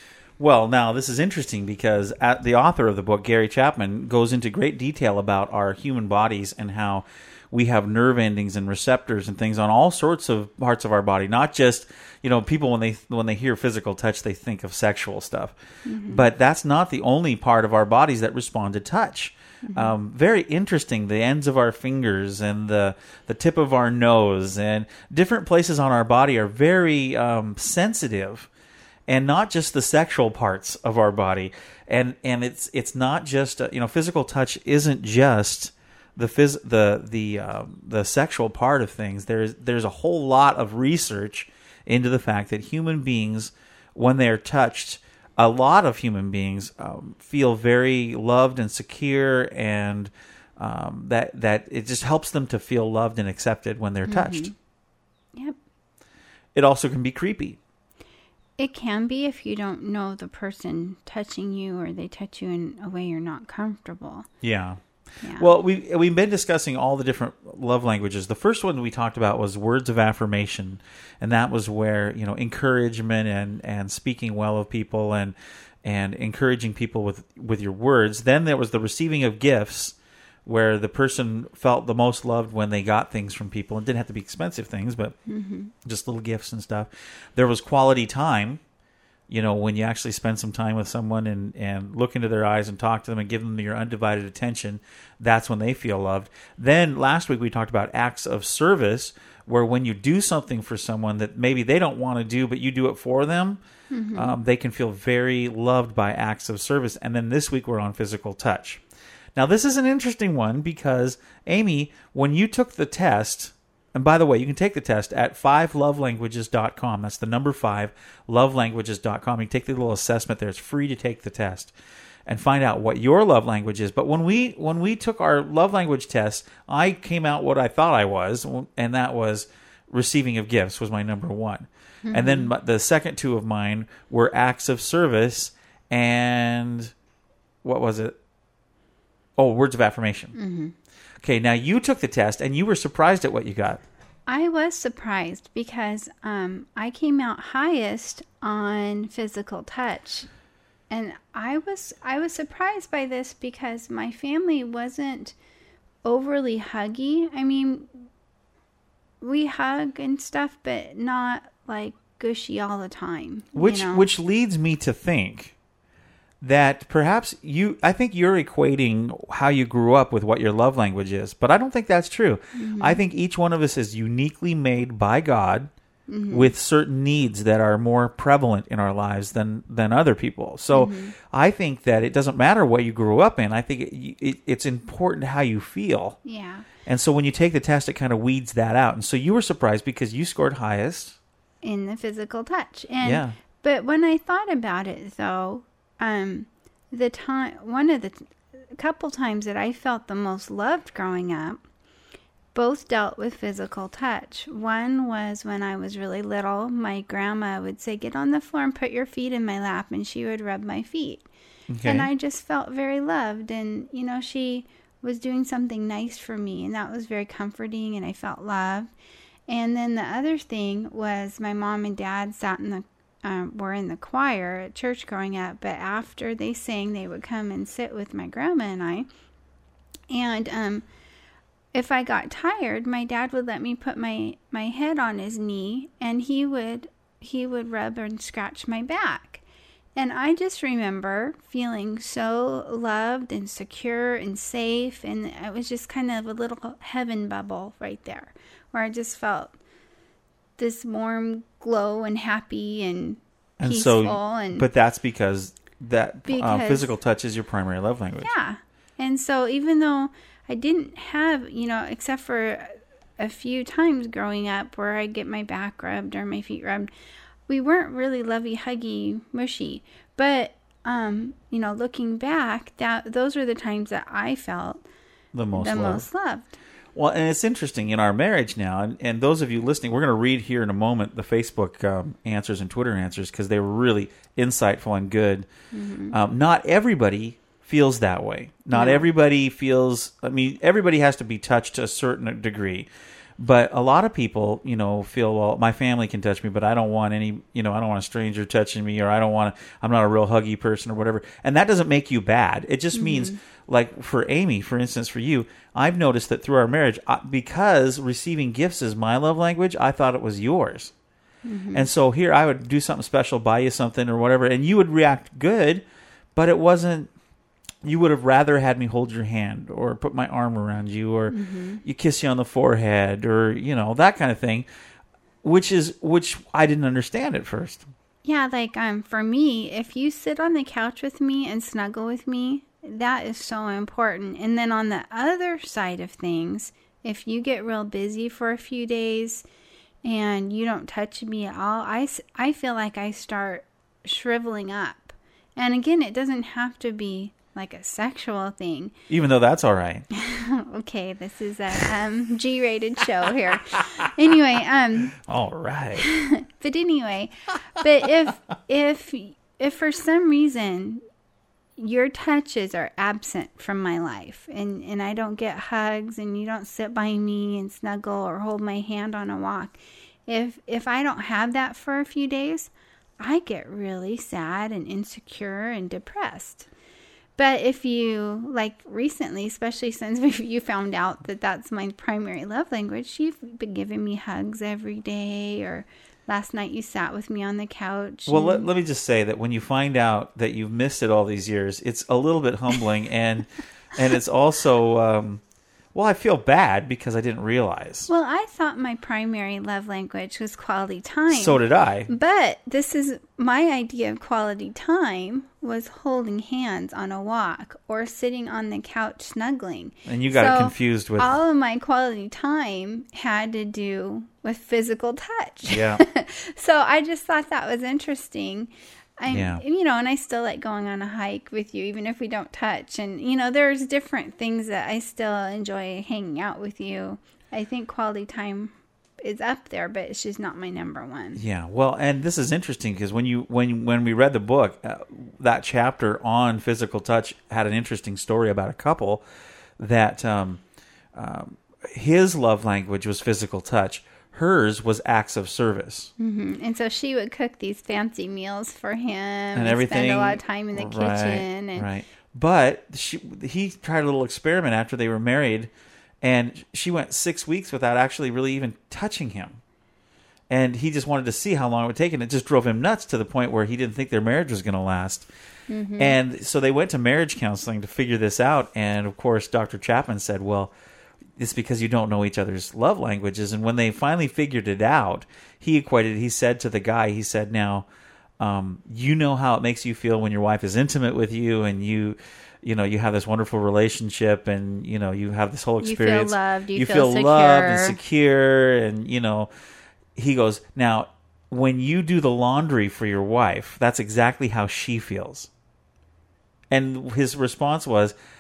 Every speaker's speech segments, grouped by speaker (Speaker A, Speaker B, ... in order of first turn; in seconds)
Speaker A: 0.4-15.6, 16.1-28.5, 29.1-54.5, 56.5-57.6, 64.4-64.8, 65.4-85.2, 85.8-88.6, 89.3-103.6, 104.1-108.8, 109.4-121.7, 122.2-136.9, 137.6-138.1, 139.4-140.3, 141.2-143.8, 163.5-165.5, 166.4-175.7, 176.3-186.2, 186.8-191.2, 193.0-193.3, 211.7-212.1, 253.6-258.3, 275.3-276.1, 277.0-285.5, 286.1-292.9, 293.4-310.9, 311.7-315.8, 316.4-317.1, 317.8-324.7, 325.4-327.9, 349.1-350.1, 355.1-356.1, 388.3-395.4, 395.9-398.1, 401.3-402.1, 410.1-411.3, 415.7-416.0, 419.3-419.6, 431.4-439.2, 439.8-440.6, 441.1-446.1, 449.5-455.7, 456.2-459.6, 460.5-465.3, 466.0-470.7, 471.4-477.9, 478.4-489.5, 490.1-495.5, 496.7-498.1
Speaker B: 15.8-16.2, 19.6-19.9, 54.1-54.5, 58.6-64.3, 65.2-65.5, 85.3-85.7, 103.9-104.3, 132.0-132.5, 140.3-140.8, 144.3-150.3, 150.9-155.3, 156.0-158.1, 159.2-164.1, 172.5-173.0, 176.1-176.5, 180.7-181.1, 186.2-186.7, 191.6-201.6, 202.5-211.3, 211.8-218.9, 219.5-229.1, 230.1-230.8, 231.7-239.4, 239.9-249.6, 250.6-254.7, 256.2-256.9, 258.2-266.9, 267.5-274.8, 275.5-276.6, 285.7-286.1, 288.7-289.1, 302.9-303.4, 311.4-311.9, 321.3-321.8, 328.2-339.5, 340.0-348.9, 350.1-355.1, 356.0-361.0, 361.8-376.7, 377.4-388.7, 398.1-431.4, 446.2-451.9, 465.7-466.2, 485.8-488.0